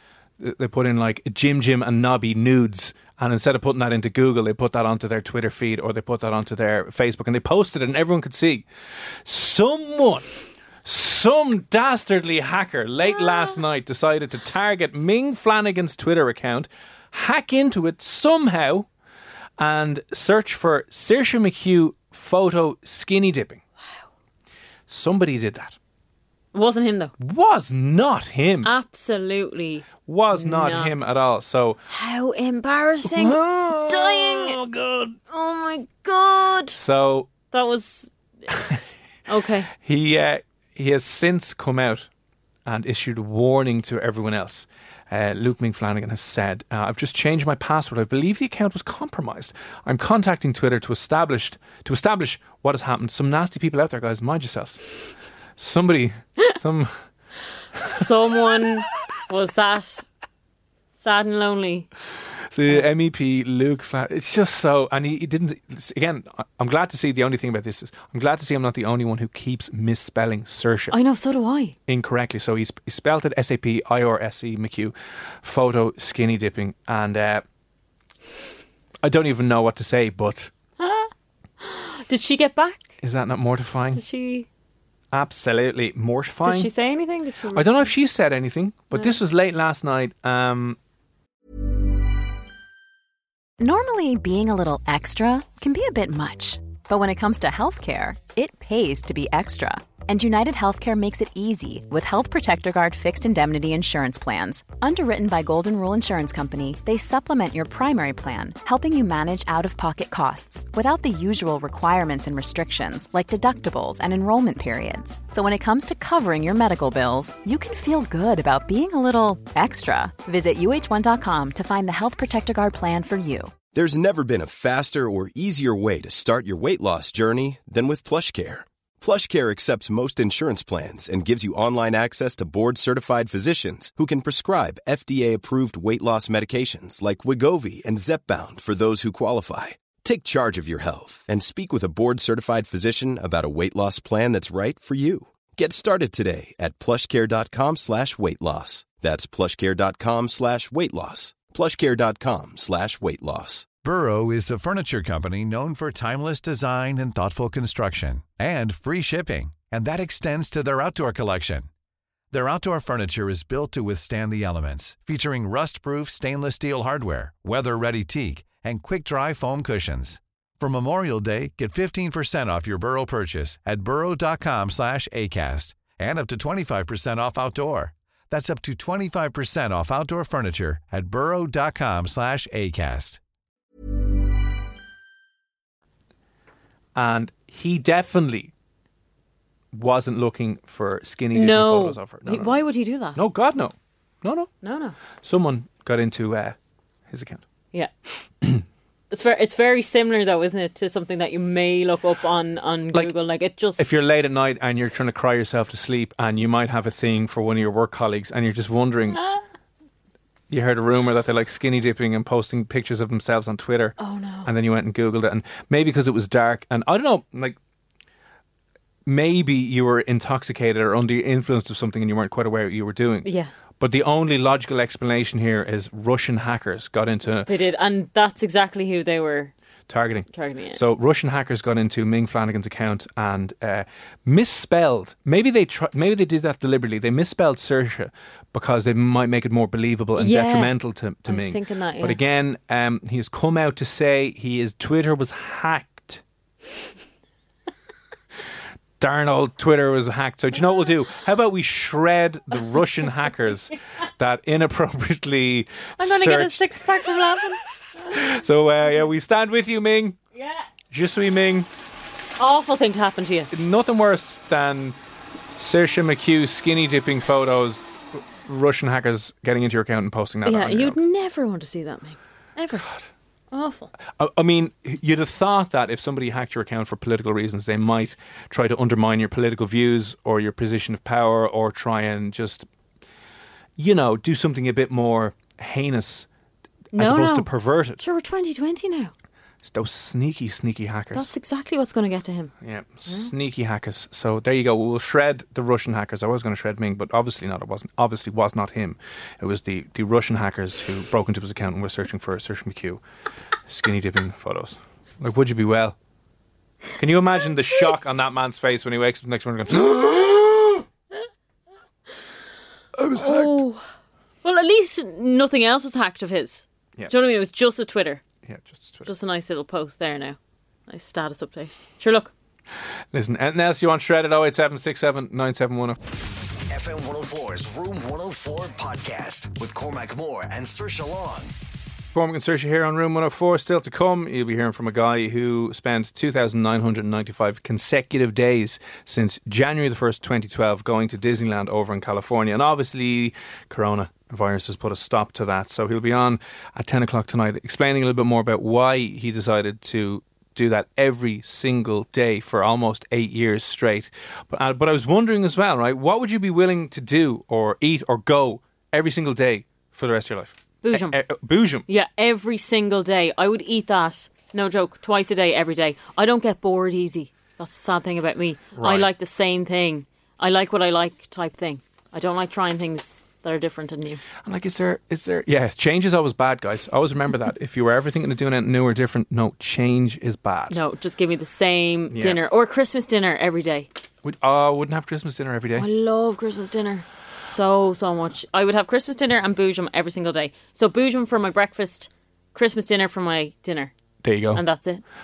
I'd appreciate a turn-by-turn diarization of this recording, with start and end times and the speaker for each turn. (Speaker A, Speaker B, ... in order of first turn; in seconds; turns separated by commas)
Speaker A: 0.4-8.7, Speaker A: 9.2-10.3, Speaker A: 10.8-18.9, Speaker A: 19.6-23.6, Speaker A: 24.9-25.8, Speaker B: 26.5-27.1, Speaker A: 27.2-28.7, Speaker B: 28.6-30.9, Speaker A: 30.1-31.8, Speaker B: 31.9-34.6, Speaker A: 33.0-35.2, Speaker B: 35.3-36.8, Speaker A: 36.7-37.3, Speaker B: 37.5-38.1, Speaker A: 38.5-38.8, Speaker B: 39.3-39.7, Speaker A: 39.8-42.1, Speaker A: 42.6-55.0, Speaker A: 55.6-56.9, Speaker A: 57.8-58.0, Speaker B: 57.8-60.1, Speaker B: 61.0-61.9, Speaker A: 62.5-71.0, Speaker B: 70.9-71.7, Speaker A: 71.9-77.4, Speaker A: 79.0-80.5, Speaker B: 80.8-82.9, Speaker A: 83.0-84.0, Speaker B: 83.9-84.5, Speaker A: 85.1-86.7, Speaker B: 86.4-87.7, Speaker A: 87.5-90.8, Speaker B: 88.9-89.2, Speaker C: 93.6-123.5, Speaker D: 123.7-153.7, Speaker E: 153.8-161.7, Speaker E: 162.3-183.2, Speaker A: 186.9-188.5, Speaker A: 189.7-192.6, Speaker B: 191.3-193.2, Speaker A: 193.1-194.5, Speaker B: 194.6-195.0, Speaker A: 195.2-196.6, Speaker A: 197.1-197.4, Speaker B: 199.1-204.0, Speaker A: 203.8-209.2, Speaker A: 210.5-217.6, Speaker B: 214.0-214.5, Speaker A: 219.1-223.3, Speaker B: 223.2-223.5, Speaker A: 223.8-227.5, Speaker B: 227.4-229.5, Speaker A: 229.9-246.2, Speaker B: 230.3-230.8, Speaker B: 240.2-240.7, Speaker B: 241.2-242.2, Speaker A: 249.0-256.7, Speaker B: 256.0-258.2, Speaker A: 258.1-260.2, Speaker B: 260.4-260.6, Speaker A: 260.9-261.7, Speaker B: 262.4-263.5, Speaker A: 263.5-265.0, Speaker A: 265.6-271.0, Speaker B: 270.4-272.9, Speaker B: 273.5-273.9, Speaker A: 274.2-282.6, Speaker A: 283.8-286.2, Speaker A: 286.9-288.0, Speaker B: 286.9-289.1, Speaker A: 289.6-291.3, Speaker B: 291.1-292.5, Speaker A: 292.6-303.0, Speaker B: 293.1-293.3, Speaker A: 303.7-305.9, Speaker A: 307.0-310.8, Speaker A: 312.9-313.6, Speaker B: 313.1-313.8, Speaker B: 314.4-318.2, Speaker A: 318.4-319.1, Speaker B: 319.0-322.3, Speaker A: 323.1-326.0, Speaker F: 326.7-331.5, Speaker A: 332.1-361.8, Speaker B: 360.8-361.2, Speaker B: 361.9-374.2, Speaker A: 368.7-369.1, Speaker A: 374.4-380.8, Speaker B: 380.7-383.9, Speaker A: 382.1-382.4, Speaker A: 384.2-385.9, Speaker B: 385.8-393.9, Speaker A: 394.2-394.6, Speaker B: 394.5-395.0